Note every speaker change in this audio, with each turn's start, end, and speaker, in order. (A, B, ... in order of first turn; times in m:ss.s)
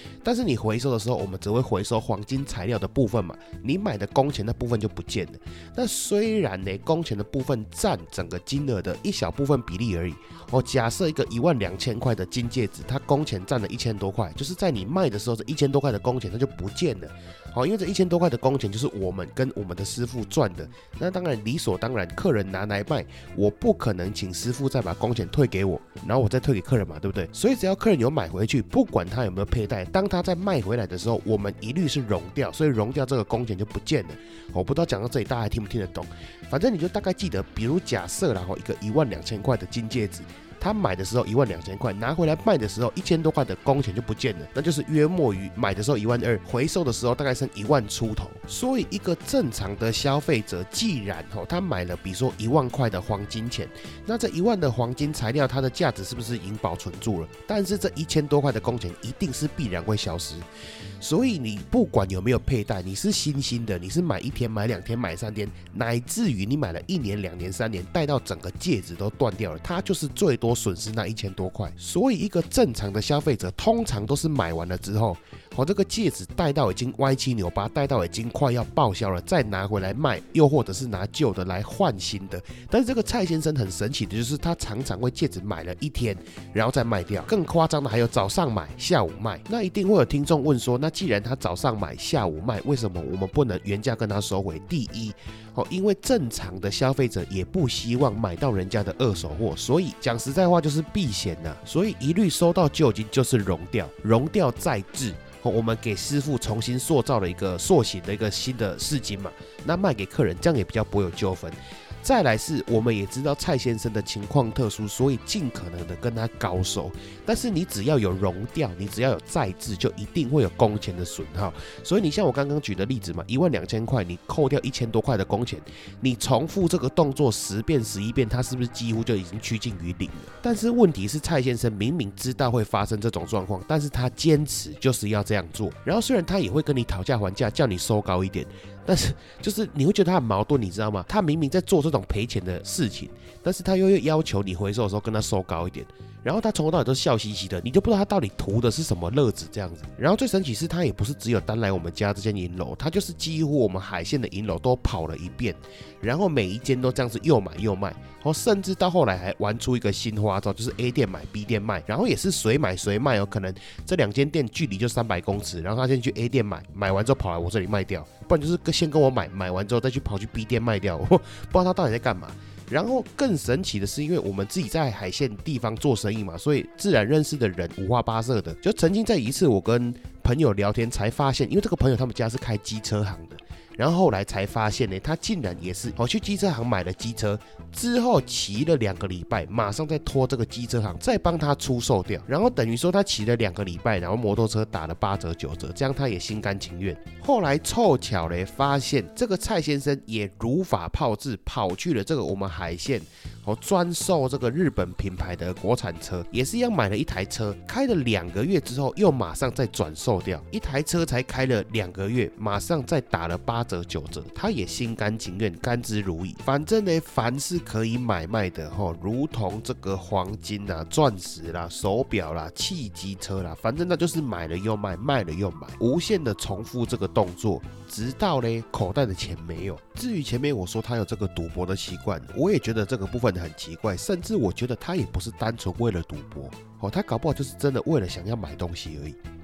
0:00.2-1:00.5 A
1:01.0-3:59.2 A